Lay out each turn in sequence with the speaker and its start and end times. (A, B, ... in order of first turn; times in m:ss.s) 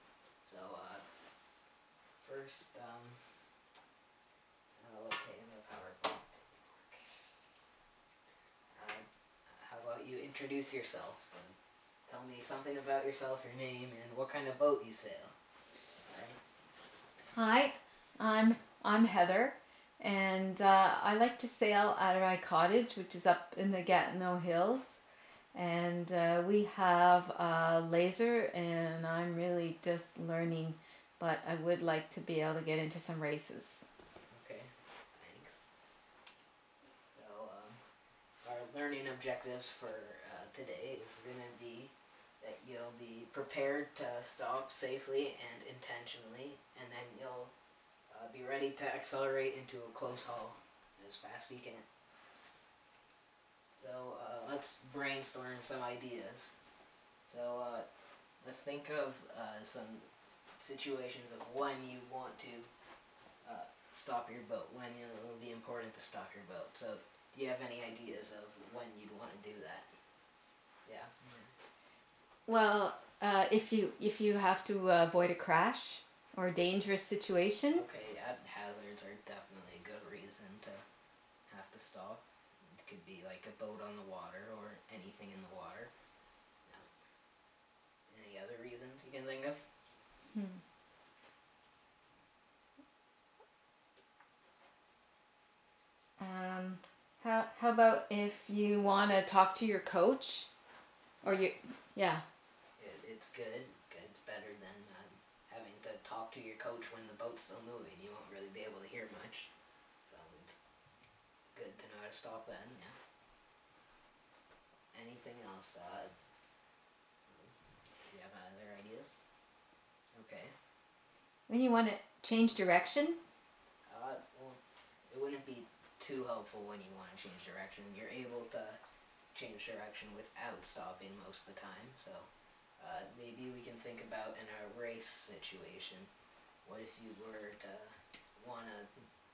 0:00.4-0:01.0 A
0:02.2-0:03.5 A
0:04.8-0:07.2 A
0:08.7-0:15.4 A
0:16.0-0:16.4 A
0:17.3-0:25.0 B
0:25.5-0:33.8 B
0:34.3-0:35.7 A
0:37.0-0:37.8 A
0:38.4-0:47.6 A
0:48.1-0:51.9 A
0:53.7-0:56.6 A
0:57.2-1:02.7 A
1:03.4-1:09.9 A
1:10.8-1:11.5 A
1:12.5-1:17.8 B
1:17.7-1:20.8 A
1:21.5-1:25.9 A
1:26.6-1:26.9 A
1:28.1-1:29.7 A
1:30.3-1:30.6 B
1:36.2-1:40.5 B
1:41.2-1:41.5 A
1:41.2-1:42.2 B
1:42.8-1:50.6 A
1:51.5-1:53.0 A
1:54.9-1:56.1 A
1:57.3-1:59.2 A
2:00.1-2:00.5 A
2:01.5-2:03.2 B
2:03.9-2:08.8 A
2:09.3-2:16.1 A
2:16.6-2:19.1 A